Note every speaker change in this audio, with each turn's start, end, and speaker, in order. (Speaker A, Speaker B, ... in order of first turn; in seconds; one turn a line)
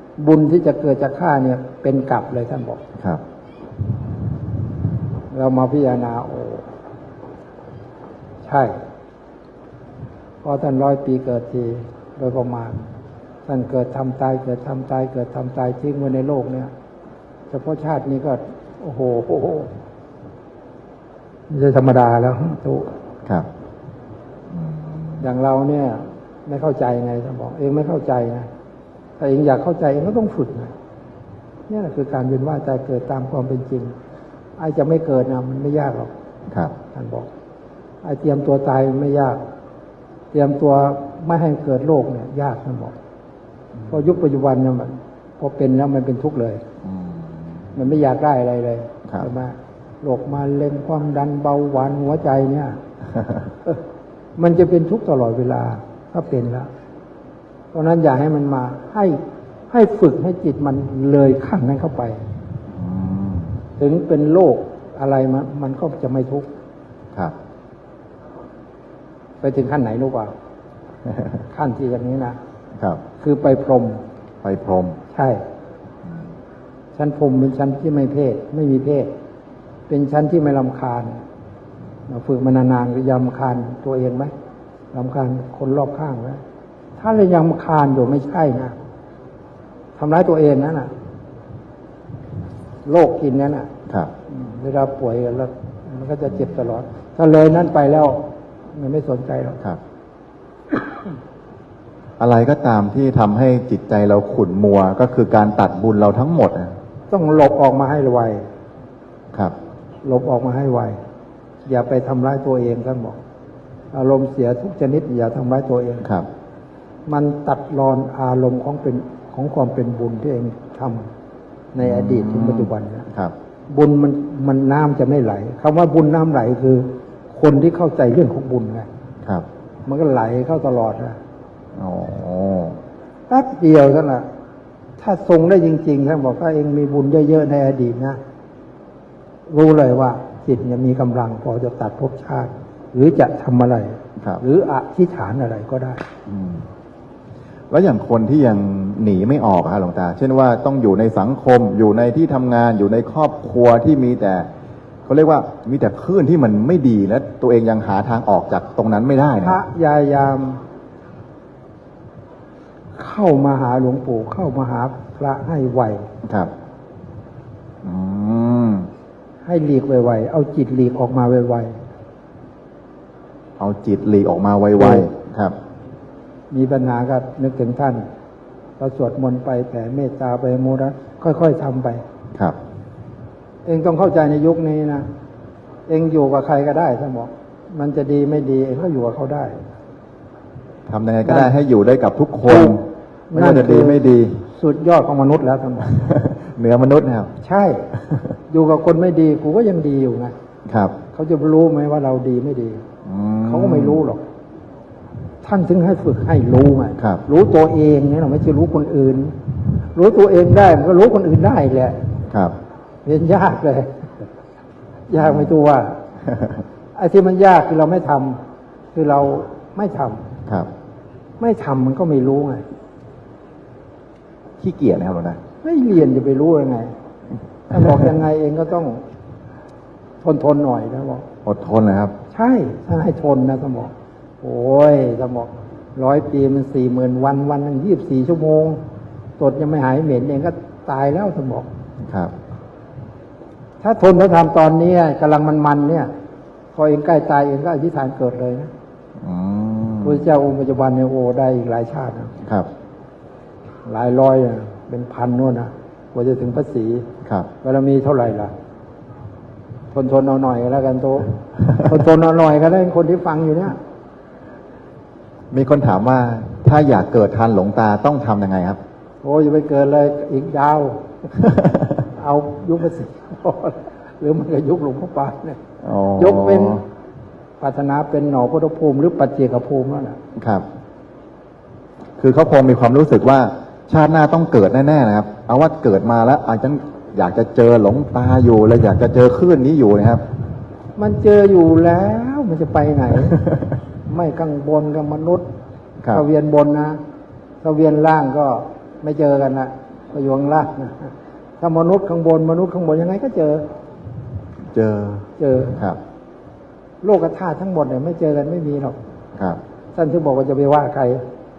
Speaker A: 0.2-2.8
Speaker B: 3.0-3.2
Speaker A: 5.3-6.7
Speaker A: 8.4-8.8
Speaker A: 10.4-12.8
Speaker A: 13.5-16.7
Speaker A: 17.5-19.7
Speaker A: 21.5-22.9
Speaker B: 24.6-25.2
Speaker A: 25.2-28.5
Speaker A: 29.2-30.7
Speaker A: 31.7-33.9
Speaker A: 34.6-36.1
Speaker B: 36.5-36.8
Speaker A: 36.9-37.3
Speaker A: 38.0-39.4
Speaker A: 40.3-42.9
Speaker A: 43.9-46.6
Speaker B: 46.8-47.7
Speaker A: 47.8-52.8
Speaker A: 54.4-56.7
Speaker A: 57.7-59.2
Speaker A: 59.7-62.2
Speaker B: 62.7-63.5
Speaker A: 63.8-66.5
Speaker A: 69.4-70.3
Speaker A: 71.5-72.4
Speaker A: 73.2-74.0
Speaker B: 74.4-75.0
Speaker A: 75.1-75.4
Speaker A: 77.0-79.1
Speaker A: 79.9-81.2
Speaker A: 82.1-84.3
Speaker A: 84.9-86.4
Speaker A: 87.0-88.8
Speaker A: 90.0-90.9
Speaker A: 92.9-93.7
Speaker A: 94.3-99.6
Speaker B: 102.2-106.8
Speaker A: 107.1-108.5
Speaker A: 110.0-111.0
Speaker A: 111.7-113.2
Speaker A: 113.9-116.1
Speaker B: 116.0-116.3
Speaker A: 117.1-121.1
Speaker A: 121.7-123.1
Speaker B: 121.8-123.3
Speaker A: 123.7-128.9
Speaker A: 129.9-131.2
Speaker B: 131.8-132.8
Speaker A: 133.3-134.3
Speaker A: 135.0-138.2
Speaker A: 139.5-146.1
Speaker B: 146.3-146.7
Speaker B: 147.7-154.5
Speaker B: 155.1-159.6
Speaker A: 159.4-160.6
Speaker A: 163.0-166.1
Speaker B: 166.2-166.5
Speaker B: 167.8-168.9
Speaker A: 169.4-171.8
Speaker B: 173.6-175.6
Speaker A: 174.8-175.1
Speaker A: 176.5-178.0
Speaker A: 178.8-182.0
Speaker A: 183.7-185.1
Speaker A: 185.9-189.5
Speaker B: 190.9-192.8
Speaker A: 191.3-191.5
Speaker A: 192.5-192.8
Speaker A: 193.3-195.9
Speaker B: 193.3-194.4
Speaker B: 195.9-197.3
Speaker A: 197.4-197.8
Speaker A: 198.5-200.3
Speaker B: 200.7-200.9
Speaker A: 201.1-202.8
Speaker B: 203.1-204.0
Speaker A: 203.4-204.2
Speaker A: 205.4-209.3
Speaker A: 209.9-212.0
Speaker B: 212.3-212.6
Speaker A: 213.1-214.1
Speaker A: 215.1-216.0
Speaker B: 215.2-215.6
Speaker A: 217.0-218.4
Speaker A: 218.9-220.3
Speaker A: 221.4-222.6
Speaker B: 224.6-225.4
Speaker A: 225.6-226.9
Speaker A: 227.7-229.0
Speaker A: 230.2-231.2
Speaker B: 231.4-232.2
Speaker A: 232.3-238.8
Speaker A: 239.4-241.7
Speaker B: 242.1-242.3
Speaker A: 243.8-246.1
Speaker A: 246.7-248.7
Speaker B: 249.2-250.3
Speaker A: 250.0-252.3
Speaker B: 252.4-252.7
Speaker A: 253.8-257.1
Speaker A: 257.6-258.5
Speaker A: 259.9-263.8
Speaker B: 265.5-268.8
Speaker A: 269.2-271.3
Speaker A: 272.0-275.6
Speaker B: 275.8-276.8
Speaker A: 276.2-276.8
Speaker A: 277.6-280.2
Speaker B: 280.4-280.6
Speaker B: 282.2-290.2
Speaker A: 291.0-293.4
Speaker A: 294.1-295.4
Speaker A: 296.1-297.0
Speaker A: 297.6-303.7
Speaker B: 304.7-306.0
Speaker A: 305.4-305.8
Speaker A: 307.0-309.0
Speaker A: 309.9-311.2